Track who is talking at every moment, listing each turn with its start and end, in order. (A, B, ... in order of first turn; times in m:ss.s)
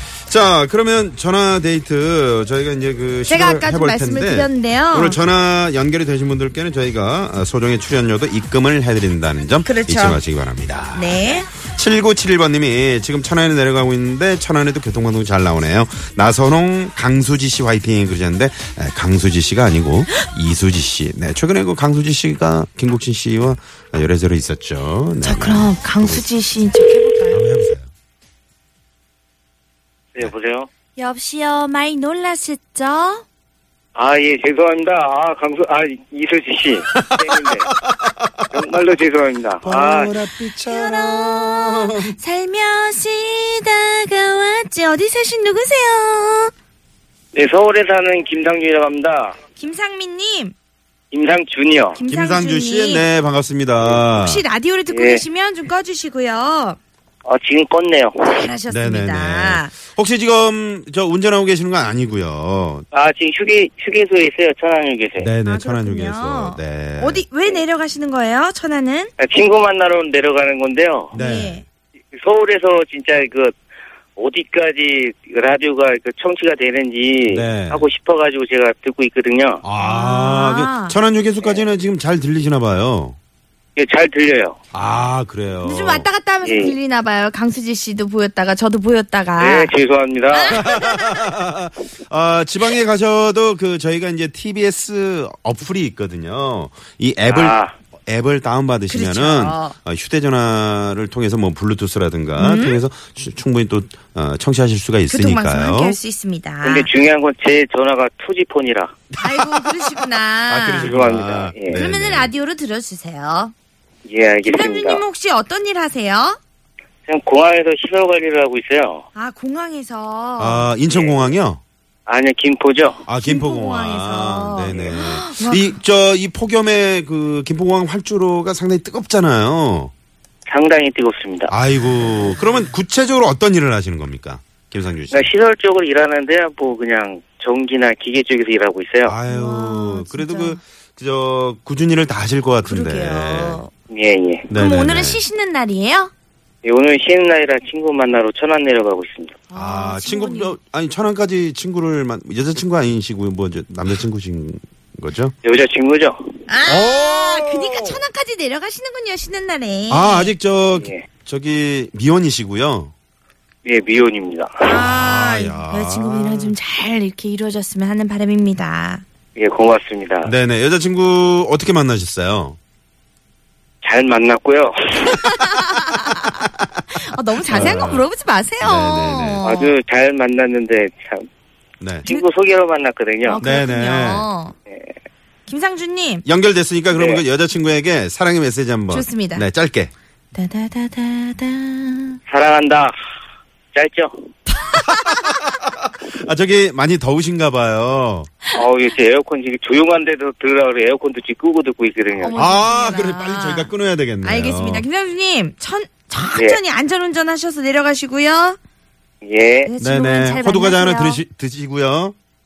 0:00.3-0:26.3 A
0:03.3-0:05.2 B
0:09.6-0:10.2 B
0:10.9-0:11.5 B
0:25.2-0:27.4 B
0:27.3-0:27.9 A
0:30.1-0:30.7 C
0:31.0-0:33.2 B
0:34.0-0:37.7 C
0:37.1-0:38.5 A
0:38.5-0:40.2 C
0:39.6-0:42.1 A
0:40.6-0:46.5 B
0:47.3-0:49.4 C
0:49.6-0:50.5 B
0:51.1-0:52.0 C
0:51.9-0:53.1 B
0:52.1-0:54.4 A
0:54.1-0:56.8 B
0:54.9-0:55.2 C
0:57.2-0:58.2 C
0:58.2-0:59.7 B
0:58.7-1:02.8 A
1:02.9-1:05.3 C
1:05.2-1:07.2 A
1:05.4-1:09.1 B
1:09.2-1:11.1 C
1:11.1-1:11.6 A
1:11.1-1:11.6 B
1:12.1-1:13.5 C
1:14.2-1:19.6 C
1:17.3-1:17.9 A
1:19.6-1:23.2 A
1:19.8-1:21.0 B
1:23.8-1:24.6 C
1:24.7-1:26.1 A
1:25.6-1:29.7 B
1:26.4-1:26.8 C
1:29.4-1:30.6 C
1:30.3-1:31.2 B
1:30.5-1:46.0 A
1:37.2-1:37.7 C
1:38.9-1:39.7 B
1:42.4-1:42.8 B
1:45.1-1:46.9 B
1:46.6-1:48.9 C
1:49.1-1:49.7 A
1:49.2-1:50.9 B
1:50.5-1:52.3 A
1:50.8-1:51.8 C
1:51.7-1:53.5 B
1:54.0-1:55.0 C
1:54.4-1:56.4 B
1:57.0-1:59.0 C
1:59.1-2:00.7 B
2:00.4-2:01.6 A
2:00.9-2:01.3 C
2:02.1-2:03.0 C
2:03.1-2:09.9 A
2:03.2-2:05.7 B
2:10.5-2:11.5 C
2:11.5-2:15.3 A
2:15.1-2:19.1 C
2:19.0-2:23.6 A
2:19.3-2:20.6 B
2:22.6-2:23.7 B
2:23.9-2:24.5 C
2:24.5-2:25.2 A
2:24.5-2:26.1 B
2:26.6-2:29.4 C
2:29.5-2:30.6 B
2:29.5-2:35.3 A
2:35.4-2:36.2 C
2:36.5-2:40.3 B
2:36.7-2:38.0 A
2:39.9-2:42.9 A
2:40.8-2:41.0 C
2:43.6-2:44.5 C
2:44.6-2:49.0 B
2:44.6-2:46.6 A
2:49.4-2:50.3 C
2:50.2-2:52.6 A
2:53.8-2:55.2 C
2:55.1-2:59.7 B
2:57.5-2:58.1 A
2:58.6-2:59.4 A
2:59.4-3:01.3 C
3:01.8-3:02.0 A
3:02.0-3:03.4 C
3:03.2-3:04.6 B
3:03.4-3:04.3 A
3:05.5-3:06.2 B
3:06.2-3:09.9 A
3:06.9-3:07.2 C
3:08.9-3:09.4 B
3:10.3-3:12.2 B
3:12.3-3:12.9 C
3:13.7-3:14.2 C
3:14.5-3:15.4 B
3:15.0-3:18.3 A
3:18.5-3:22.4 C
3:22.2-3:23.7 B
3:22.3-3:24.8 A
3:24.2-3:28.6 B
3:26.3-3:26.6 C
3:29.2-3:29.7 C
3:29.6-3:31.2 B
3:29.8-3:32.1 A